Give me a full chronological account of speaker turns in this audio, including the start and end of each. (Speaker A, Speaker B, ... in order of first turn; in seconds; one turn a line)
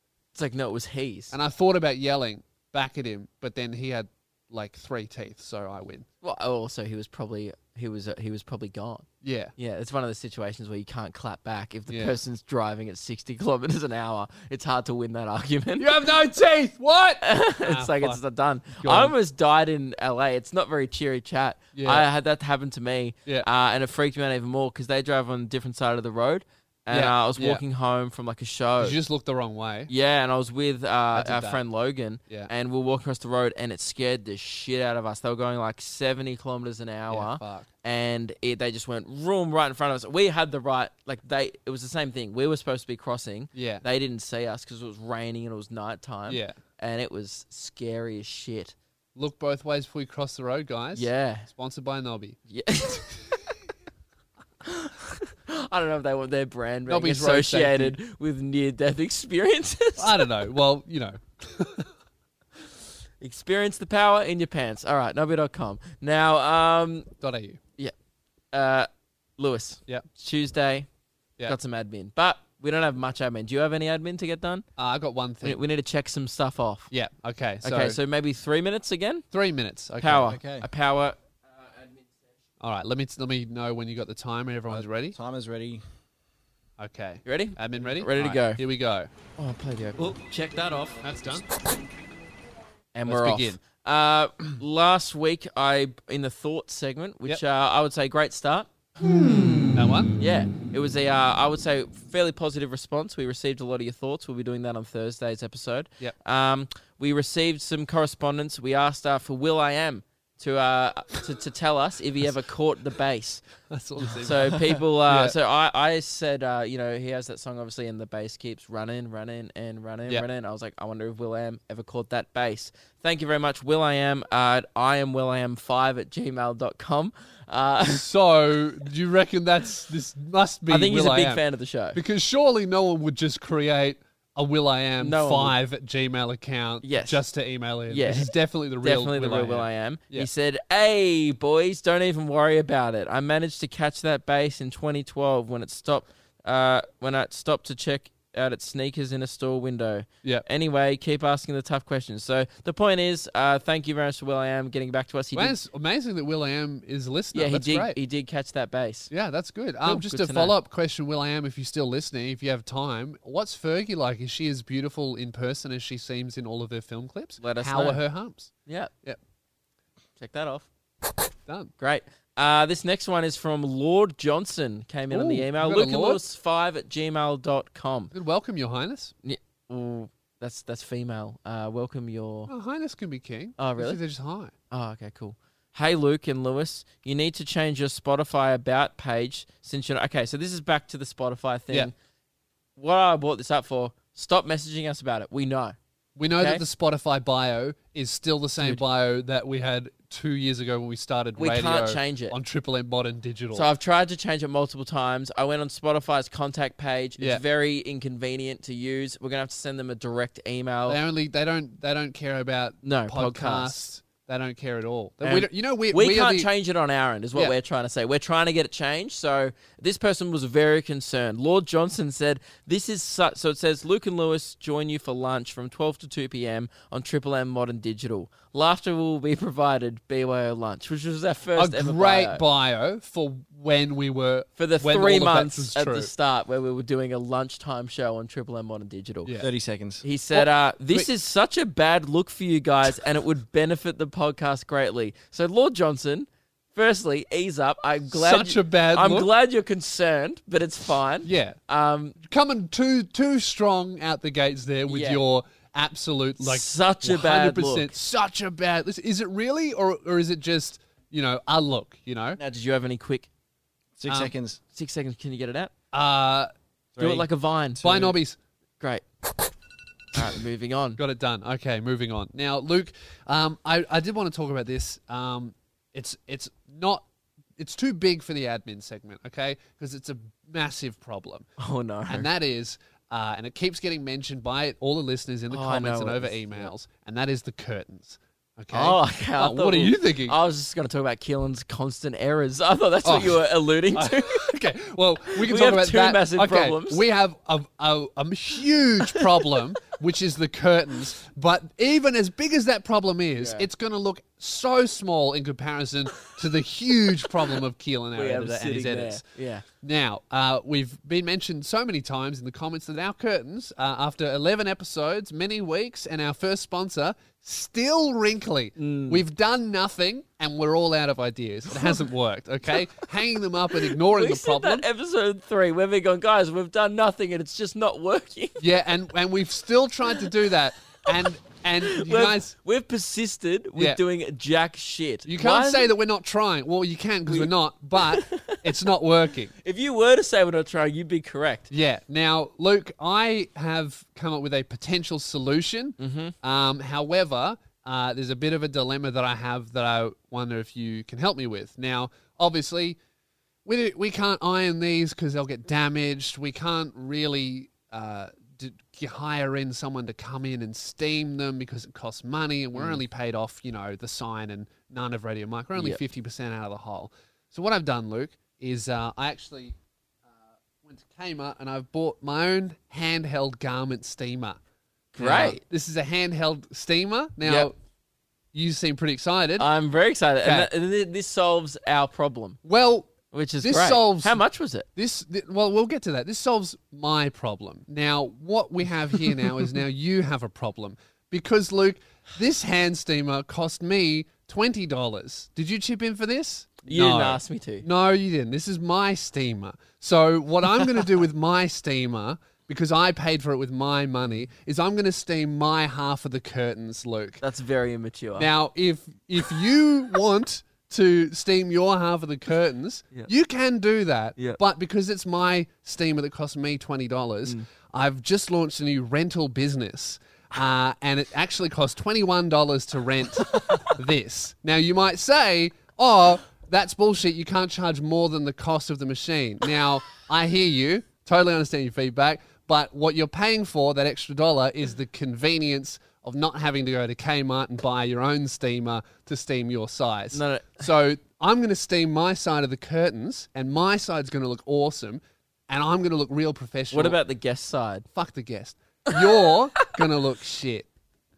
Speaker A: 0.3-1.3
Speaker B: 1.3-6.0
Speaker A: 6.2-15.9
Speaker B: 9.2-9.5
Speaker B: 11.9-12.1
Speaker B: 15.8-18.2
Speaker A: 17.2-29.0
Speaker B: 18.7-19.1
Speaker B: 21.7-22.1
Speaker B: 26.9-27.6
Speaker B: 28.8-29.9
Speaker A: 29.9-48.7
Speaker B: 31.1-31.6
Speaker B: 37.1-37.7
Speaker B: 43.5-43.8
Speaker B: 46.3-46.6
Speaker B: 49.1-52.4
Speaker A: 50.9-51.5
Speaker A: 52.5-53.2
Speaker A: 54.6-60.2
Speaker B: 56.9-58.0
Speaker B: 60.0-61.9
Speaker A: 63.2-67.1
Speaker B: 67.2-67.6
Speaker A: 68.5-70.9
Speaker A: 71.4-74.6
Speaker B: 74.8-75.6
Speaker A: 75.4-76.9
Speaker B: 76.9-78.0
Speaker A: 77.6-79.2
Speaker B: 79.3-80.3
Speaker A: 80.0-81.8
Speaker C: 80.2-80.7
Speaker B: 82.6-85.2
Speaker C: 84.7-85.8
Speaker B: 86.8-89.1
Speaker A: 87.2-88.6
Speaker A: 89.4-91.1
Speaker B: 91.0-91.5
Speaker A: 92.9-113.4
Speaker B: 93.0-93.6
Speaker B: 99.7-100.1
Speaker B: 113.7-115.3
Speaker A: 114.2-128.1
Speaker B: 127.8-131.4
Speaker A: 130.7-132.0
Speaker B: 131.9-140.3
Speaker A: 135.0-135.5
Speaker A: 136.8-137.2
Speaker A: 137.9-155.6
Speaker B: 155.3-158.0
Speaker A: 157.3-159.1
Speaker B: 159.1-168.5
Speaker A: 159.8-160.5
Speaker A: 167.4-168.0
Speaker A: 168.7-168.9
Speaker A: 170.2-170.7
Speaker B: 171.5-171.7
Speaker A: 171.8-178.1
Speaker B: 175.1-176.2
Speaker B: 178.1-179.1
Speaker A: 179.2-182.5
Speaker B: 182.5-184.5
Speaker A: 183.6-184.0
Speaker A: 184.7-191.9
Speaker A: 192.8-195.8
Speaker B: 196.2-203.7
Speaker A: 196.4-196.6
Speaker A: 201.4-202.3
Speaker A: 203.5-211.0
Speaker B: 210.9-216.5
Speaker A: 212.8-213.8
Speaker A: 215.2-232.4
Speaker B: 231.6-236.1
Speaker A: 234.6-239.3
Speaker C: 239.4-240.0
Speaker A: 240.0-252.2
Speaker B: 240.3-241.1
Speaker B: 248.1-249.3
Speaker B: 251.2-251.6
Speaker B: 252.2-262.4
Speaker A: 254.9-255.2
Speaker A: 256.4-257.9
Speaker A: 262.4-263.3
Speaker C: 264.0-264.6
Speaker A: 264.1-265.7
Speaker B: 265.9-266.5
Speaker C: 266.9-267.2
Speaker A: 267.0-268.1
Speaker B: 267.8-268.4
Speaker A: 268.8-269.0
Speaker A: 270.1-271.0
Speaker B: 271.0-277.0
Speaker B: 277.6-281.5
Speaker A: 281.6-282.3
Speaker B: 282.1-290.4
Speaker A: 285.5-286.7
Speaker A: 288.7-294.5
Speaker B: 293.0-324.9
Speaker A: 295.3-297.0
Speaker A: 299.1-299.4
Speaker A: 303.4-303.7
Speaker A: 308.1-309.6
Speaker A: 318.8-319.2
Speaker A: 321.7-322.0
Speaker A: 323.8-328.6
Speaker B: 328.6-332.5
Speaker A: 331.8-335.9
Speaker B: 335.2-339.5
Speaker A: 337.3-338.6
Speaker A: 339.6-341.7
Speaker B: 341.7-353.0
Speaker A: 346.0-346.3
Speaker B: 353.6-369.7
Speaker A: 362.7-363.0
Speaker B: 370.8-374.6
Speaker A: 375.1-375.6
Speaker B: 375.2-377.7
Speaker A: 377.4-377.7
Speaker B: 378.5-379.6
Speaker A: 379.6-382.6
Speaker B: 380.4-380.7
Speaker B: 382.6-384.4
Speaker A: 383.3-384.9
Speaker B: 384.9-407.4
Speaker A: 396.8-397.9
Speaker A: 407.4-408.5
Speaker B: 408.4-447.2
Speaker A: 440.3-440.8
Speaker A: 446.9-448.1
Speaker B: 448.1-450.9